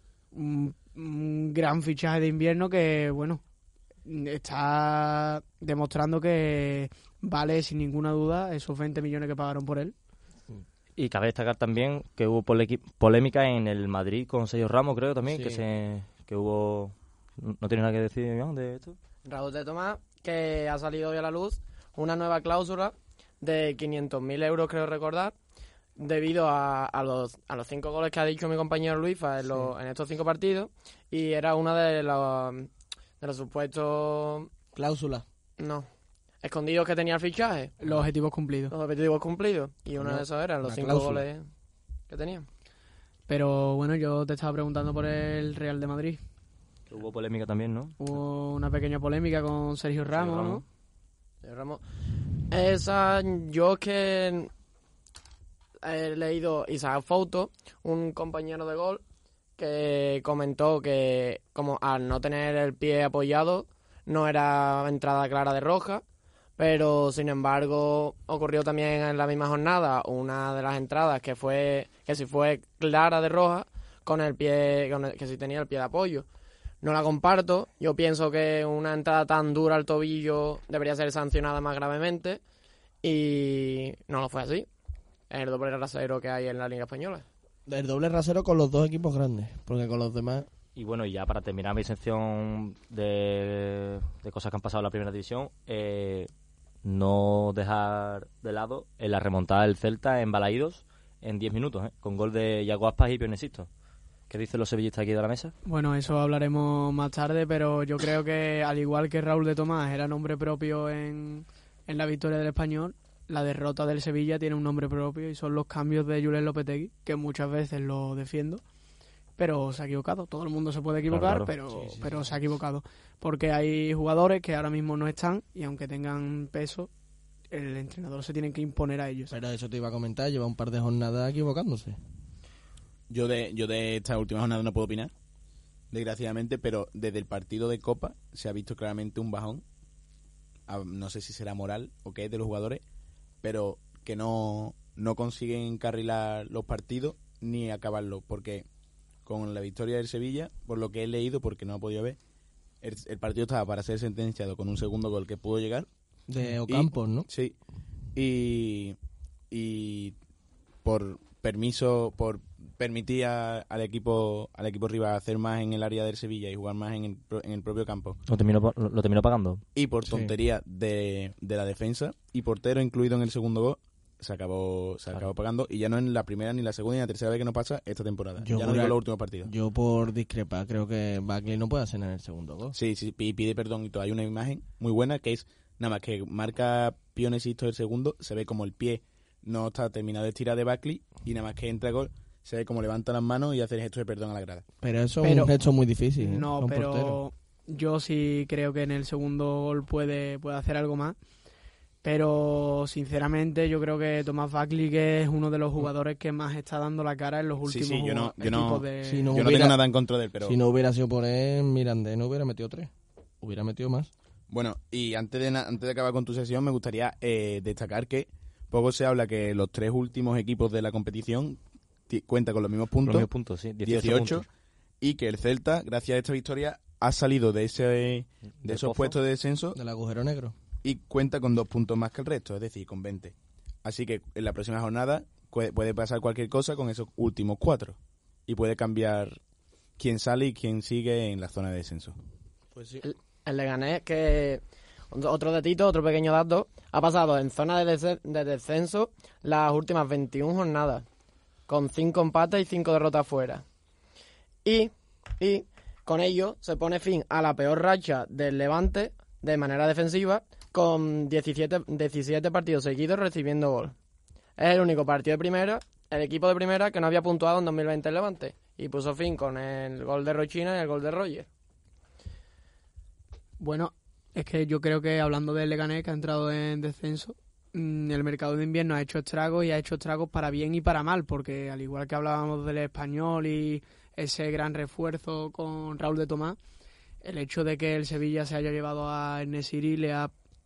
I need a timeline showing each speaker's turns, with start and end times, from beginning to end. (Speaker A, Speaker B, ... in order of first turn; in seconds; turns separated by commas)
Speaker A: 0.3-3.4, Speaker A: 4.0-9.9, Speaker B: 11.0-19.0, Speaker C: 15.3-15.6, Speaker D: 19.2-25.3, Speaker D: 26.0-34.5, Speaker C: 29.4-29.7, Speaker C: 34.7-35.2, Speaker D: 35.6-35.9, Speaker D: 36.4-37.7, Speaker A: 37.8-38.7, Speaker D: 38.7-41.4, Speaker C: 40.0-41.2, Speaker D: 42.1-42.5, Speaker A: 43.3-46.2, Speaker B: 46.9-48.0, Speaker A: 48.0-50.6, Speaker B: 50.1-50.6, Speaker D: 51.4-51.8, Speaker D: 52.4-54.5, Speaker D: 55.8-59.0, Speaker D: 59.6-66.0, Speaker D: 66.6-76.2, Speaker D: 76.8-82.4, Speaker D: 83.0-84.7, Speaker D: 85.3-87.2, Speaker C: 87.7-90.5, Speaker B: 90.8-96.3, Speaker B: 96.8-103.7, Speaker B: 104.3-105.5, Speaker A: 105.6-118.6, Speaker A: 119.4-126.9, Speaker B: 121.1-121.5, Speaker C: 121.7-122.3, Speaker A: 127.5-129.3, Speaker C: 129.3-132.0, Speaker E: 133.1-135.1, Speaker E: 135.9-139.6, Speaker E: 140.7-142.8, Speaker E: 143.4-148.7, Speaker E: 149.2-152.2, Speaker E: 152.8-155.9, Speaker C: 156.3-157.3, Speaker E: 156.7-157.5, Speaker E: 158.1-158.9, Speaker E: 159.5-160.1, Speaker E: 160.8-168.2, Speaker B: 168.3-169.6, Speaker E: 169.8-179.5, Speaker C: 170.1-170.3, Speaker C: 178.4-182.7, Speaker E: 182.7-194.7, Speaker C: 194.8-197.2, Speaker A: 195.2-195.5, Speaker A: 196.2-201.2, Speaker A: 202.0-209.4, Speaker E: 207.6-210.6, Speaker C: 209.0-209.8, Speaker C: 210.4-214.1, Speaker E: 214.5-223.3, Speaker B: 223.0-224.4, Speaker E: 223.8-224.5, Speaker E: 225.0-229.8, Speaker B: 228.6-229.2, Speaker C: 229.7-230.5, Speaker E: 230.8-233.3, Speaker E: 233.8-239.4, Speaker E: 240.0-242.1, Speaker C: 242.7-243.0, Speaker D: 243.0-251.0, Speaker D: 251.7-253.6, Speaker D: 254.6-263.9, Speaker D: 264.6-271.5, Speaker A: 273.6-286.6, Speaker A: 287.2-290.3